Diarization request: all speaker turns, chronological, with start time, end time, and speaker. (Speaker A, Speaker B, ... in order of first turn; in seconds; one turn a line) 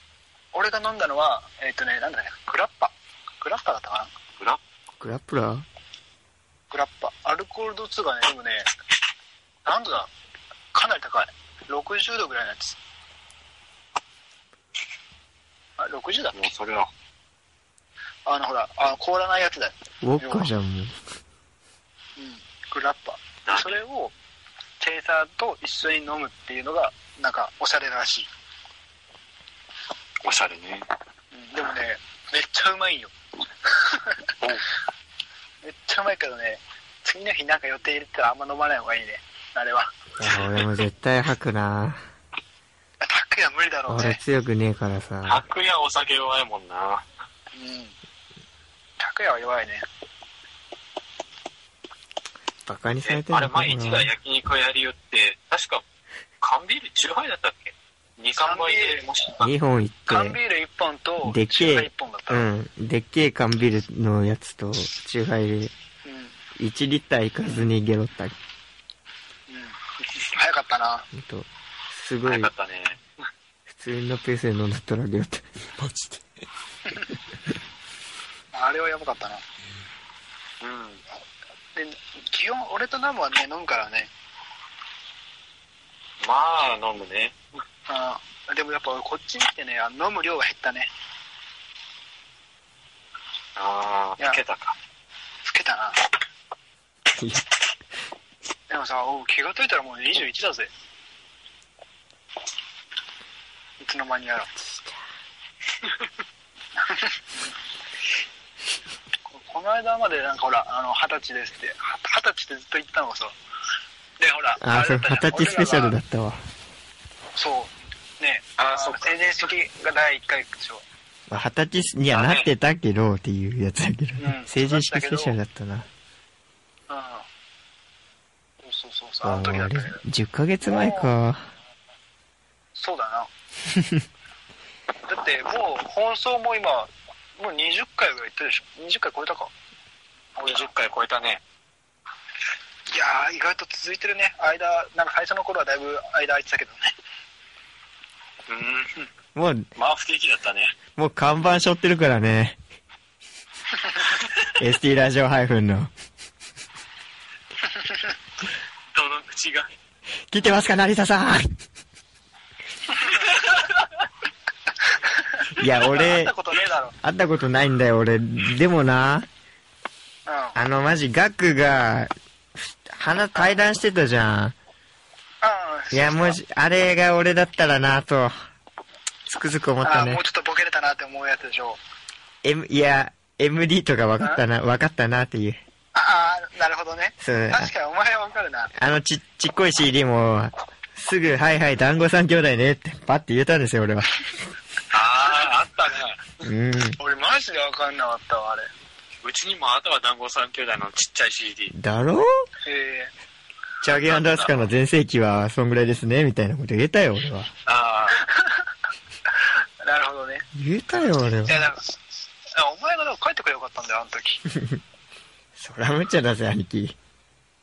Speaker A: 0.5-4.1
Speaker B: 5.0-5.7
Speaker A: 6.7-8.7
Speaker A: 9.6-10.1
Speaker A: 10.7-12.8
Speaker A: 15.8-16.5
Speaker C: 16.3-16.9
Speaker A: 18.2-20.5
Speaker B: 20.0-21.0
Speaker A: 22.2-24.1
Speaker C: 23.5-23.8
Speaker A: 24.8-28.3
Speaker C: 30.2-30.9
Speaker A: 31.3-33.1
Speaker A: 33.6-34.3
Speaker A: 35.6-39.9
Speaker B: 40.2-42.0
Speaker A: 43.0-44.2
Speaker B: 43.9-45.4
Speaker C: 45.2-47.0
Speaker A: 47.5-47.9
Speaker A: 49.0-49.9
Speaker B: 52.6-54.1
Speaker C: 53.0-55.8
Speaker C: 56.4-59.5
Speaker A: 58.4-59.0
Speaker B: 59.4-60.4
Speaker A: 60.1-62.5
Speaker B: 61.2-65.7
Speaker A: 66.0-66.3
Speaker B: 66.6-68.4
Speaker A: 69.5-71.1
Speaker B: 71.1-72.5
Speaker C: 72.2-73.0
Speaker B: 73.7-75.4
Speaker A: 76.9-77.1
Speaker A: 78.5-79.4
Speaker C: 80.6-81.0
Speaker A: 81.7-84.1
Speaker C: 86.2-87.3
Speaker A: 87.9-90.9
Speaker C: 93.5-94.7
Speaker A: 95.5-96.0
Speaker B: 97.1-97.4
Speaker A: 98.7-100.7
Speaker A: 103.8-104.5
Speaker B: 104.7-105.0
Speaker A: 106.8-107.2
Speaker A: 109.3-113.3
Speaker A: 114.2-116.0
Speaker B: 114.6-116.4
Speaker A: 117.3-120.8
Speaker C: 118.6-119.5
Speaker B: 121.3-125.9
Speaker C: 122.1-122.5
Speaker A: 124.2-125.3
Speaker A: 126.9-127.2
Speaker A: 128.6-130.0
Speaker B: 129.2-131.5
Speaker A: 130.6-131.1
Speaker A: 132.7-133.3
Speaker B: 133.7-134.0
Speaker A: 135.1-139.5
Speaker A: 140.4-140.7
Speaker C: 140.4-141.4
Speaker A: 142.9-146.9
Speaker C: 148.5-149.1
Speaker B: 149.3-149.7
Speaker C: 149.8-150.7
Speaker B: 151.0-152.6
Speaker B: 154.6-155.9
Speaker A: 157.8-158.0
Speaker C: 158.9-159.7
Speaker B: 160.3-161.5
Speaker C: 163.1-163.8
Speaker A: 165.0-166.9
Speaker B: 165.6-166.3
Speaker B: 167.0-169.3
Speaker A: 170.3-170.6
Speaker B: 170.6-172.1
Speaker B: 172.9-174.5
Speaker A: 175.4-176.4
Speaker B: 175.9-178.3
Speaker B: 179.3-180.2
Speaker A: 179.8-181.8
Speaker B: 182.4-185.6
Speaker A: 185.9-188.7
Speaker B: 187.2-187.7
Speaker B: 188.7-194.2
Speaker C: 194.9-196.4
Speaker B: 196.4-197.0
Speaker A: 197.0-198.7
Speaker C: 199.2-201.7
Speaker B: 201.7-202.4
Speaker A: 202.6-203.1
Speaker B: 203.8-207.5
Speaker C: 203.9-204.5
Speaker C: 207.7-208.3
Speaker A: 208.2-208.6
Speaker A: 209.4-210.4
Speaker B: 210.5-211.6
Speaker A: 211.4-212.0
Speaker A: 212.5-214.4
Speaker B: 215.6-216.9